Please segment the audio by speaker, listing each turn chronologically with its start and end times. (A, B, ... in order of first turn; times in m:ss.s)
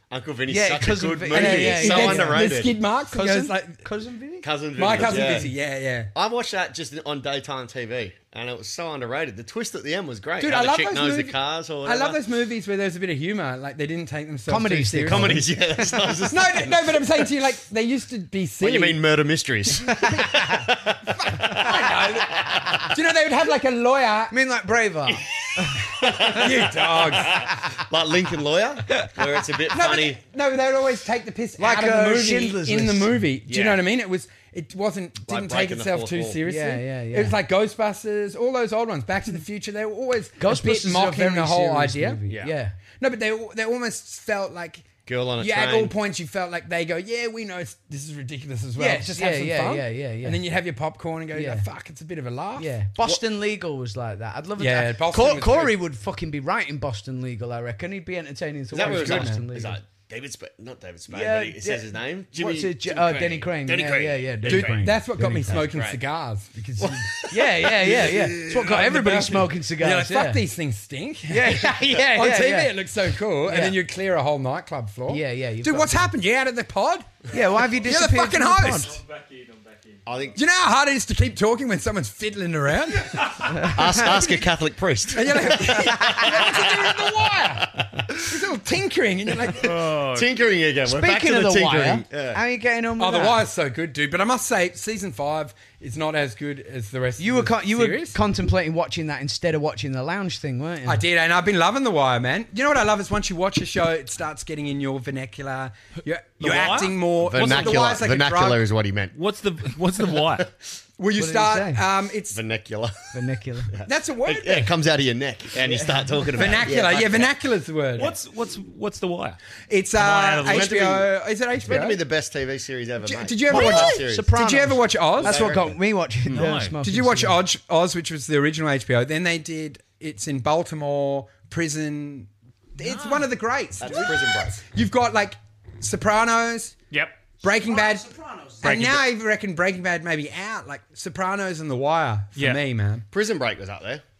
0:00.1-0:02.7 A
0:00.5-0:02.5 B
0:01.3-0:03.8 C
0:03.1-0:05.5 B
0:04.4-0:05.5 A
0:04.8-0:06.1 C
0:06.1-0:12.2 A
0:10.4-0:15.5 C
0:14.5-0:15.9 B
0:15.0-0:17.0 A
0:16.3-0:19.0 C
0:18.6-0:22.9 A
0:20.1-0:20.4 B
0:21.1-0:24.3 C
0:24.3-0:26.0 B
0:25.7-0:30.2 A
0:25.9-0:27.4 C
0:29.7-0:42.2 C
0:31.6-0:33.2 B
0:33.5-0:33.8 A
0:35.3-0:36.4 A
0:36.4-0:37.4 B
0:40.4-0:42.8 B
0:42.3-0:42.5 A
0:43.0-0:52.7 C
0:45.0-0:45.9 A
0:48.8-0:50.4 B
0:51.3-0:51.6 B
0:52.6-0:59.8 B
0:54.6-0:55.8 C
0:58.7-1:04.9 A
0:58.7-0:59.4 C
1:01.1-1:05.6 B
1:04.4-1:07.1 C
1:05.4-1:06.0 A
1:06.8-1:08.6 A
1:07.3-1:10.4 B
1:07.8-1:19.0 C
1:11.3-1:12.8 B
1:13.4-1:13.8 B
1:15.1-1:16.1 B
1:17.3-1:18.9 B
1:18.8-1:20.0 D
1:20.0-1:20.4 A
1:20.3-1:23.3 C
1:23.1-1:23.4 D
1:23.5-1:24.0 B
1:23.6-1:28.1 A
1:25.1-1:29.8 C
1:29.6-1:30.4 D
1:29.6-1:32.4 A
1:30.8-1:33.4 B
1:33.0-1:38.2 C
1:37.2-1:41.0 B
1:40.8-1:48.6 C
1:46.4-1:48.0 D
1:47.2-1:49.1 A
1:49.1-1:50.5 D
1:50.0-1:50.5 A
1:51.0-1:52.4 C
1:51.2-1:51.8 B
1:52.3-1:53.0 A
1:53.1-1:53.7 B
1:53.7-1:57.3 A
1:53.8-1:54.7 C
1:55.6-1:58.1 C
1:58.0-1:59.4 D
1:59.7-2:02.0 C
2:00.0-2:00.7 D
2:00.4-2:04.3 A
2:03.0-2:05.5 C
2:03.5-2:07.4 B
2:05.2-2:05.8 A
2:06.3-2:06.7 D
2:06.8-2:16.7 C
2:12.8-2:13.2 D
2:13.8-2:14.6 A
2:16.9-2:17.2 D
2:17.4-2:23.0 C
2:18.6-2:19.0 D
2:23.1-2:24.0 A